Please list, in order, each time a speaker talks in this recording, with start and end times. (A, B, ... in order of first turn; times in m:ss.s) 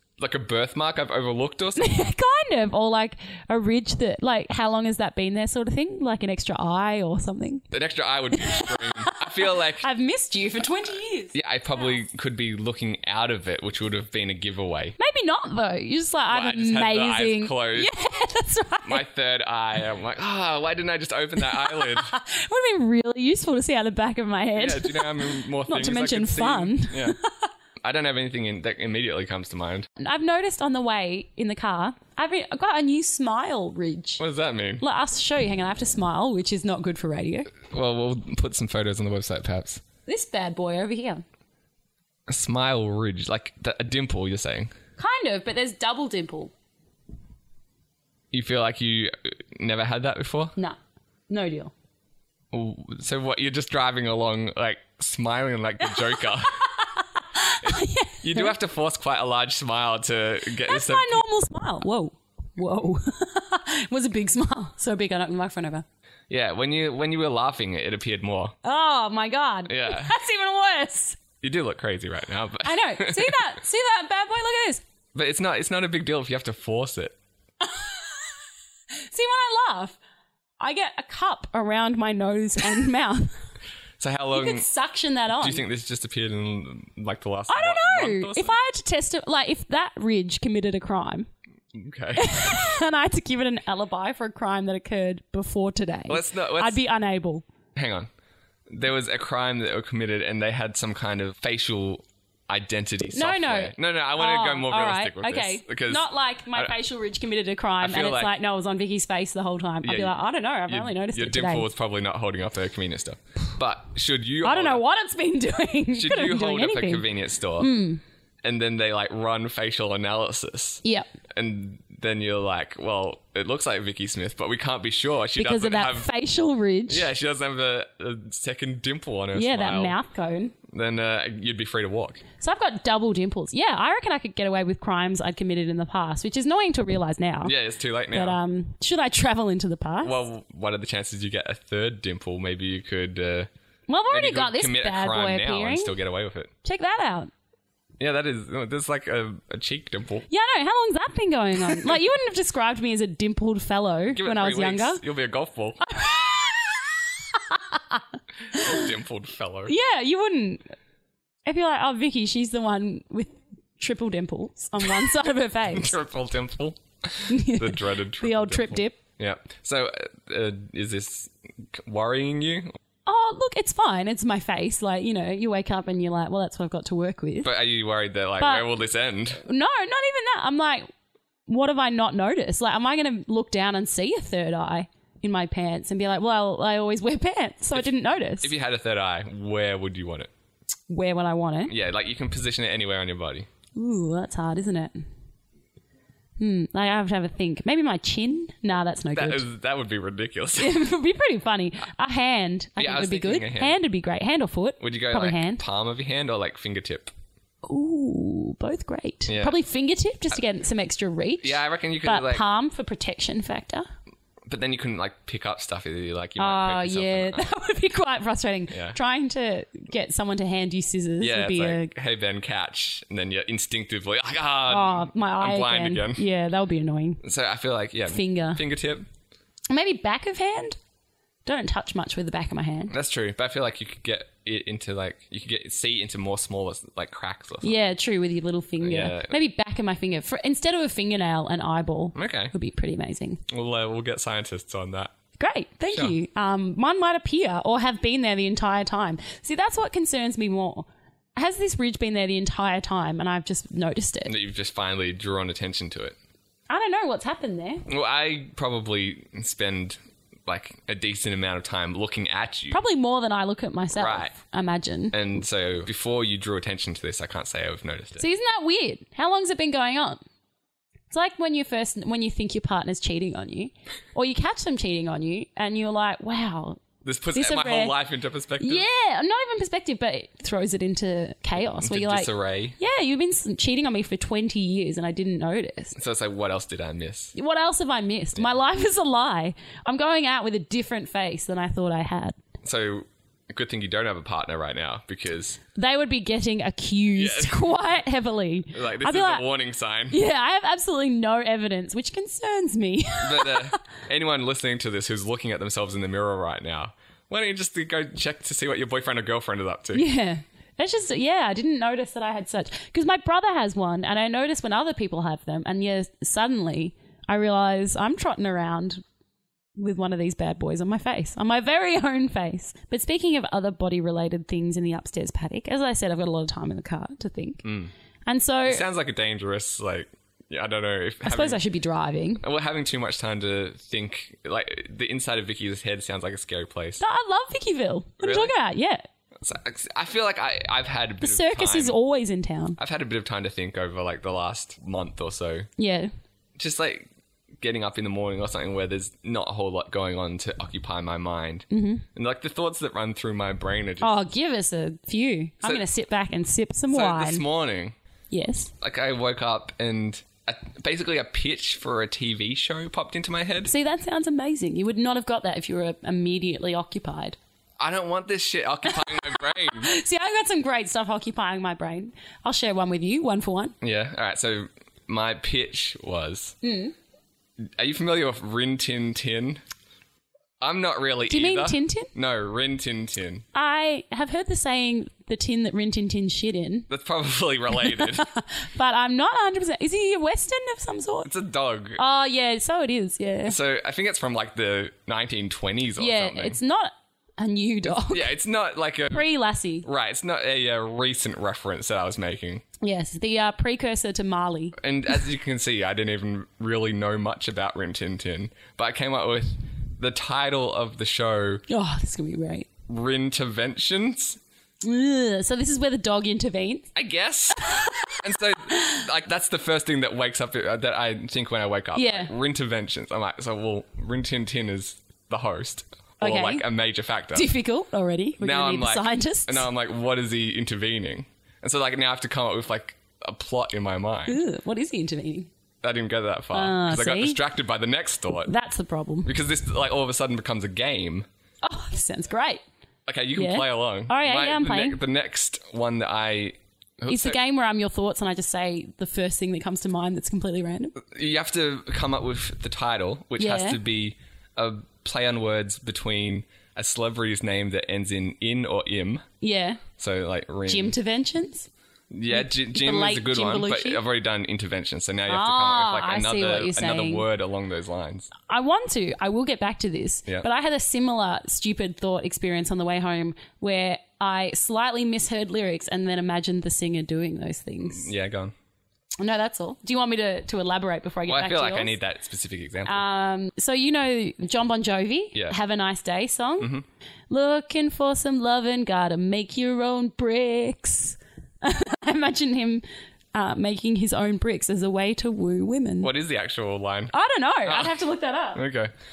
0:00.2-0:02.1 A
0:01.8-0:07.6 B
0:07.7-0:09.8 A
0:08.3-0:11.9 B
0:11.3-0:15.0 A
0:15.0-0:19.0 B
0:16.3-0:17.9 A
0:18.8-0:22.1 A
0:21.5-0:27.2 B
0:24.5-0:27.2 A
0:27.8-0:29.9 A
0:30.0-0:34.2 B
0:34.2-0:34.8 A
0:34.8-0:37.5 B
0:37.6-0:39.8 A
0:40.0-0:41.2 B
0:42.3-0:44.7 A
0:45.0-0:46.5 B
0:48.3-0:50.5 A
0:51.3-0:51.7 B
0:52.5-0:56.5 A
0:56.6-0:58.5 B
0:57.6-1:01.2 A
1:00.6-1:05.8 B
1:06.3-1:08.6 A
1:08.6-1:11.2 B
1:09.6-1:10.2 A
1:11.4-1:13.4 A
1:12.6-1:14.8 B
1:15.1-1:17.2 A
1:17.6-1:18.0 B
1:19.0-1:20.0 B
1:20.6-1:23.3 B
1:24.0-1:24.7 A
1:24.3-1:25.6 B
1:25.3-1:28.5 A
1:27.5-1:31.3 B
1:31.7-1:32.6 A
1:32.2-1:37.4 B
1:36.1-1:36.8 A
1:37.7-1:38.1 A
1:38.7-1:46.7 A
1:43.1-1:51.7 B
1:47.8-1:48.3 A
1:49.8-1:54.8 A
1:54.4-1:57.0 B
1:55.9-1:57.7 A
1:57.6-1:58.0 B
1:58.4-2:06.1 A
2:00.8-2:01.1 B
2:05.4-2:07.1 B
2:06.9-2:10.0 A
2:09.3-2:10.5 B
2:10.7-2:12.2 A
2:12.4-2:17.5 B
2:17.4-2:18.4 A
2:18.1-2:20.2 B
2:20.0-2:23.5 A
2:23.9-2:25.9 B
2:24.1-2:26.5 A
2:26.6-2:27.3 B
2:28.0-2:30.3 A
2:30.3-2:35.0 B
2:34.1-2:35.8 A
2:35.9-2:36.7 B
2:37.5-2:38.0 B
2:38.5-2:39.7 A
2:38.5-2:38.8 B
2:39.6-2:40.6 B
2:41.4-2:46.0 B
2:45.7-2:52.7 A
2:47.3-2:49.0 B
2:53.0-2:57.5 B
2:57.4-2:59.4 A
2:58.4-2:58.7 B
2:59.4-3:00.9 B
3:01.5-3:08.5 B
3:08.4-3:10.3 A
3:10.9-3:11.7 B
3:11.7-3:13.5 A
3:13.7-3:15.0 B
3:16.4-3:19.4 B
3:19.1-3:20.8 A
3:20.6-3:25.6 B
3:22.8-3:23.8 A
3:24.8-3:27.1 A
3:27.6-3:33.9 B
3:29.3-3:29.6 A
3:31.4-3:32.4 A
3:34.5-3:37.5 A
3:36.4-3:41.9 B
3:38.7-3:39.0 A
3:41.2-3:46.2 A
3:44.7-3:47.2 B
3:47.2-3:49.1 A
3:48.1-3:48.6 B
3:49.7-3:50.8 B
3:51.4-3:52.9 B
3:52.9-3:57.7 A
3:57.6-4:03.4 B
3:58.8-3:59.4 A
4:02.1-4:02.5 A
4:03.5-4:05.1 A
4:05.4-4:14.3 B
4:14.2-4:16.2 A
4:16.7-4:17.8 B
4:17.9-4:22.8 A
4:22.7-4:25.2 B
4:23.9-4:24.3 A
4:25.1-4:28.2 A
4:28.2-4:30.2 B
4:31.1-4:38.0 B
4:37.0-4:38.8 A
4:38.6-4:46.0 B
4:41.7-4:42.8 A
4:46.0-4:47.3 A
4:47.3-4:52.4 B
4:52.6-4:55.6 A
4:55.7-4:59.4 B
4:57.2-4:57.8 A
4:58.7-5:00.2 A
5:00.1-5:03.8 B
5:03.2-5:10.0 A
5:09.9-5:19.0 B
5:19.8-5:27.7 B
5:27.6-5:27.9 A
5:28.3-5:28.8 B
5:28.6-5:31.6 A
5:31.2-5:32.4 B
5:32.4-5:37.0 A
5:37.0-5:39.0 B
5:38.2-5:38.5 A
5:39.4-5:41.9 A
5:41.2-5:42.8 B
5:42.8-5:45.7 A
5:45.8-5:46.1 B
5:46.6-5:47.1 A
5:47.6-5:54.2 A
5:51.7-5:52.0 B
5:54.0-5:57.4 B
5:56.9-5:58.0 A
5:58.3-5:58.7 B
5:58.8-6:03.7 A
6:03.6-6:07.4 B
6:07.8-6:09.9 A
6:09.7-6:13.7 B
6:13.8-6:16.6 A
6:16.6-6:16.9 B
6:17.7-6:19.6 A
6:20.6-6:23.4 A
6:21.3-6:22.1 B
6:23.5-6:26.9 B
6:26.9-6:28.3 A
6:27.7-6:31.3 B
6:31.2-6:32.0 A
6:32.0-6:33.6 B
6:33.4-6:36.6 A
6:36.0-6:38.3 B
6:38.0-6:39.2 A
6:39.1-6:39.8 B
6:39.8-6:42.6 A
6:42.8-6:44.8 B
6:44.8-6:51.6 A
6:51.7-6:52.7 B
6:52.9-6:54.4 A
6:54.8-6:56.9 B
6:56.9-7:07.5 A
6:57.6-6:57.9 B
6:58.7-6:59.0 B
7:01.9-7:02.3 B
7:06.2-7:06.6 B
7:07.3-7:09.7 B
7:08.4-7:14.4 A
7:14.3-7:15.5 B
7:15.8-7:18.5 A
7:16.5-7:17.4 B
7:18.5-7:19.3 B
7:19.2-7:21.3 A
7:21.6-7:22.6 B
7:23.1-7:27.4 A
7:23.3-7:25.0 B
7:27.0-7:30.9 B
7:31.0-7:39.2 A
7:33.4-7:33.8 B
7:39.4-7:39.8 B
7:40.0-7:40.9 A
7:40.7-7:41.7 B
7:42.1-7:48.3 A
7:42.3-7:44.0 B
7:45.3-7:47.2 B
7:48.5-7:58.1 B
7:57.9-7:58.5 A
7:59.2-8:02.0 B
8:01.3-8:03.0 A
8:02.8-8:06.8 B
8:06.6-8:06.8 A
8:07.3-8:16.1 B
8:16.0-8:17.1 A
8:17.1-8:18.6 B
8:17.6-8:18.0 A
8:18.5-8:18.9 A